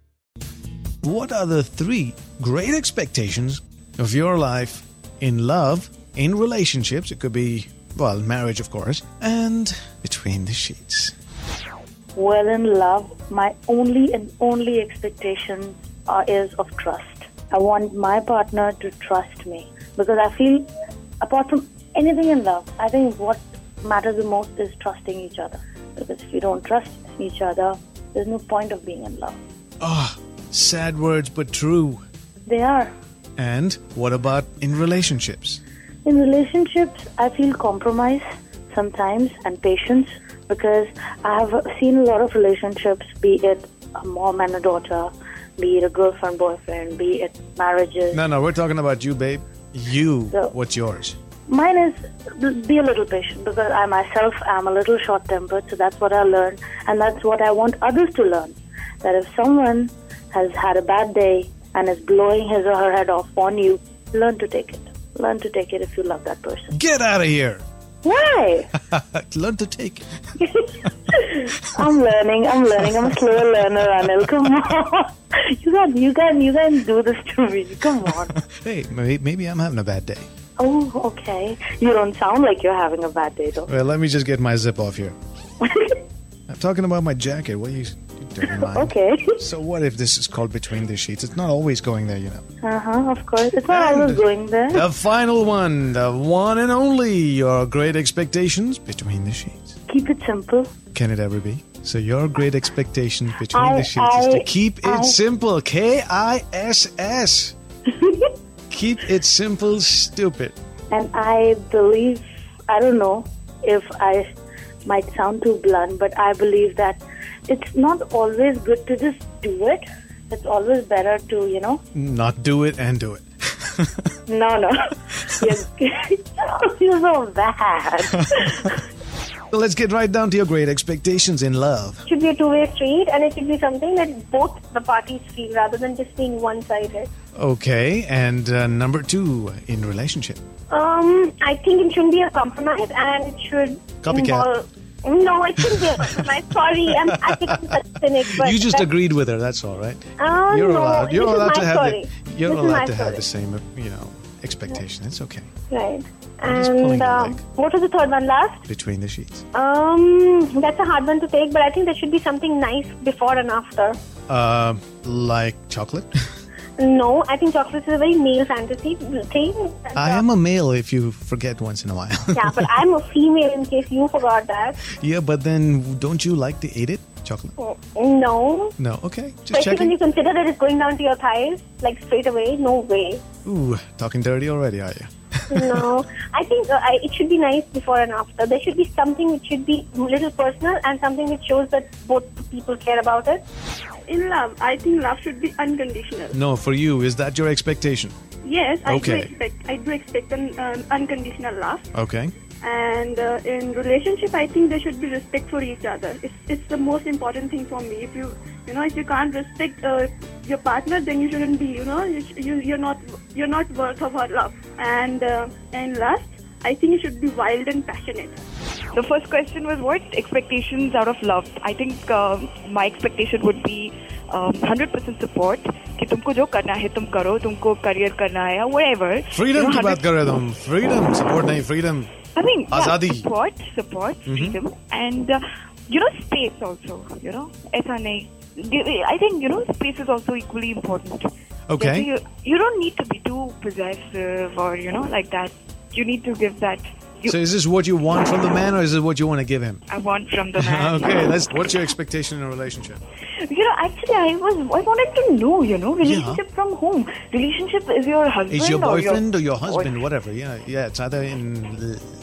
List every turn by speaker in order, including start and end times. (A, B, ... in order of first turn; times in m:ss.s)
0:01.0-0:11.1 A
0:12.2-0:20.7 B
0:21.2-0:29.4 B
0:29.8-0:32.0 A
0:32.5-0:32.9 B
0:33.4-0:35.6 A
0:36.0-0:48.2 B
0:48.1-0:51.2 A
0:50.3-0:50.6 B
0:51.5-1:06.7 B
1:06.7-1:07.6 A
1:08.0-1:08.7 B
1:08.9-1:10.0 A
1:11.3-1:18.3 B
1:18.5-1:20.3 A
1:20.6-1:23.7 B
1:23.7-1:25.2 A
1:26.5-1:32.4 A
1:28.4-1:29.4 B
1:32.6-1:34.8 B
1:33.6-1:39.8 A
1:39.9-1:40.7 B
1:40.9-1:47.6 A
1:43.5-1:45.2 B
1:48.7-1:50.6 A
1:50.9-1:54.3 B
1:54.8-2:01.8 B
2:02.0-2:04.1 A
2:04.3-2:04.7 B
2:05.3-2:08.6 B
2:09.5-2:12.0 A
2:12.1-2:17.1 C
2:17.4-2:20.4 A
2:20.7-2:28.9 C
2:24.0-2:24.5 A
2:25.6-2:35.5 A
2:30.2-2:33.3 C
2:35.7-2:38.6 C
2:36.4-2:37.4 A
2:38.7-2:39.4 A
2:39.5-2:44.0 C
2:44.3-2:46.1 A
2:46.8-2:50.2 C
2:49.9-2:52.8 A
2:52.4-2:54.8 C
2:54.8-2:57.5 A
2:57.6-2:58.7 C
2:58.8-3:00.0 A
2:59.5-3:03.2 C
3:03.4-3:05.9 A
3:05.5-3:13.4 C
3:14.1-3:16.3 D
3:16.3-3:18.1 A
3:18.4-3:21.8 D
3:18.8-3:19.3 A
3:21.9-3:22.3 A
3:22.6-3:38.4 D
3:38.9-3:50.1 E
3:49.3-3:52.1 A
3:52.4-4:01.3 E
3:52.7-3:53.3 A
3:54.3-3:54.6 A
4:01.7-4:02.1 A
4:01.8-4:07.4 E
4:07.3-4:09.8 A
4:09.9-4:11.4 E
4:10.6-4:13.0 A
4:13.4-4:20.0 E
4:16.0-4:16.4 A
4:18.5-4:22.1 A